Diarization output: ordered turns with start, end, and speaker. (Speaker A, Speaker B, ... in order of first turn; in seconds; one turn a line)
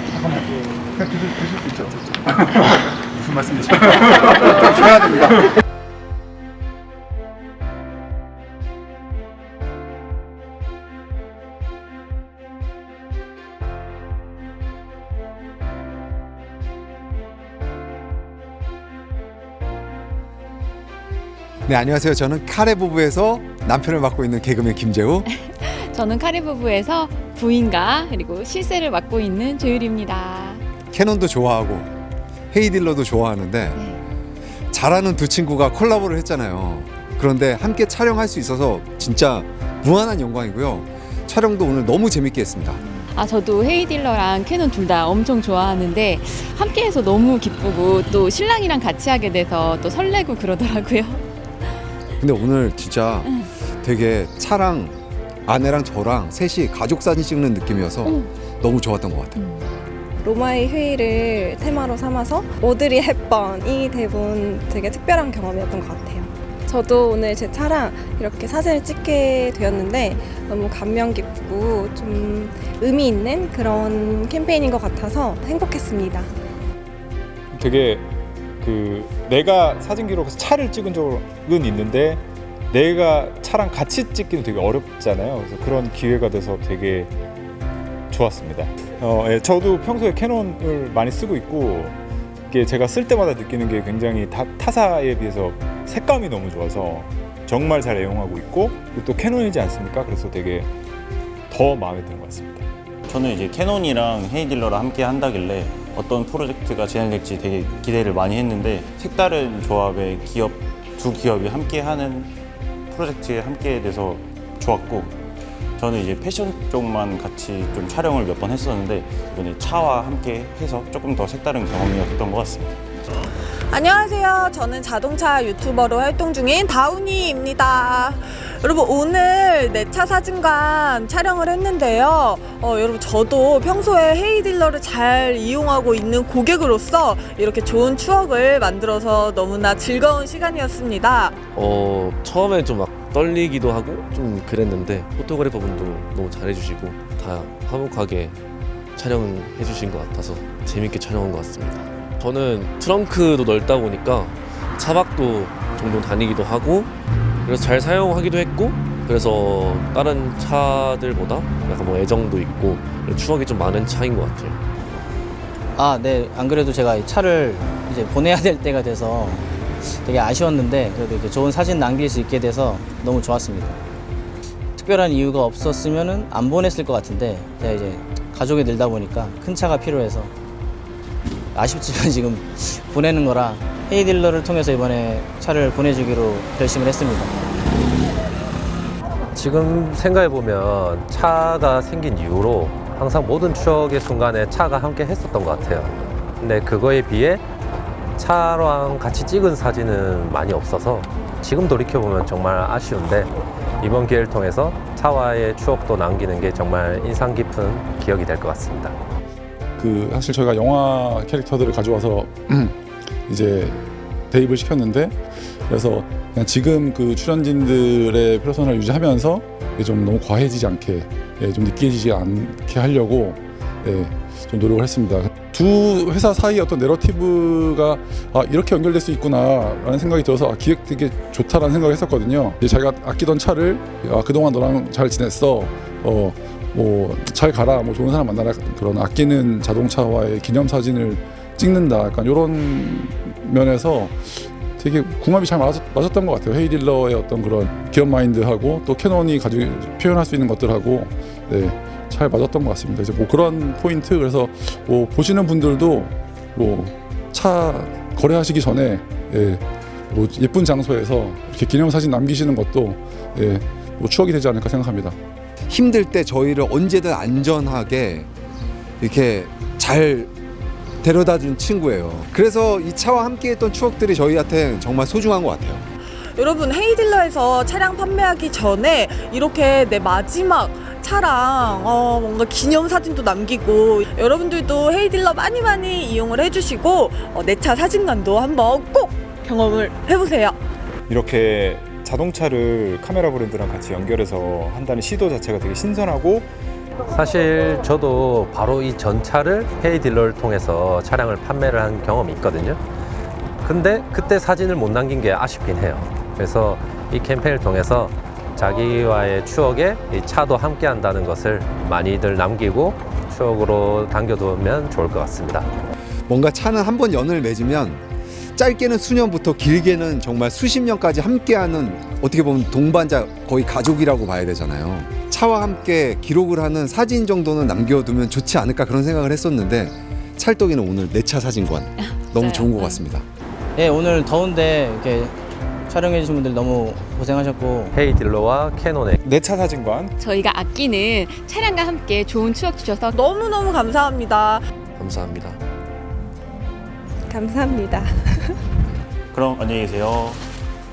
Speaker A: 21.7-25.3
Speaker B: 25.3-30.6
Speaker A: 30.9-31.9
Speaker A: 32.5-33.8
Speaker A: 34.7-42.8
Speaker B: 43.1-51.2
Speaker A: 52.2-59.4
Speaker C: 60.2-76.3
Speaker D: 77.5-78.1
Speaker D: 78.6-87.1
Speaker D: 88.1-92.0
Speaker D: 92.5-100.7
Speaker D: 101.5-102.6
Speaker E: 103.1-112.3
Speaker E: 112.9-115.1
Speaker E: 115.8-122.8
Speaker F: 123.7-141.3
Speaker G: 141.5-148.4
Speaker G: 149.0-156.9
Speaker G: 157.4-164.6
Speaker H: 165.8-173.8
Speaker H: 174.8-180.3
Speaker H: 181.6-187.4
Speaker I: 189.3-197.4
Speaker I: 198.2-209.0
Speaker J: 209.8-212.7
Speaker J: 213.3-213.8
Speaker J: 214.3-215.2
Speaker J: 215.7-265.1
Speaker A: 265.7-268.3
Speaker A: 269.0-270.3
Speaker A: 271.0-275.8
Speaker F: 276.4-290.6
Speaker D: 291.1-296.5
Speaker I: 297.1-302.8
Speaker I: 303.6-315.7
Speaker A: 316.3-318.0
Speaker A: 318.6-333.2
Speaker B: 332.3-333.0
Speaker H: 333.8-335.4
Speaker H: 335.9-337.9
Speaker I: 337.9-339.2
Speaker D: 339.2-340.1
Speaker B: 340.2-343.1
Speaker F: 343.1-344.6
Speaker G: 345.0-345.6
Speaker C: 347.3-348.6
Speaker E: 349.3-350.4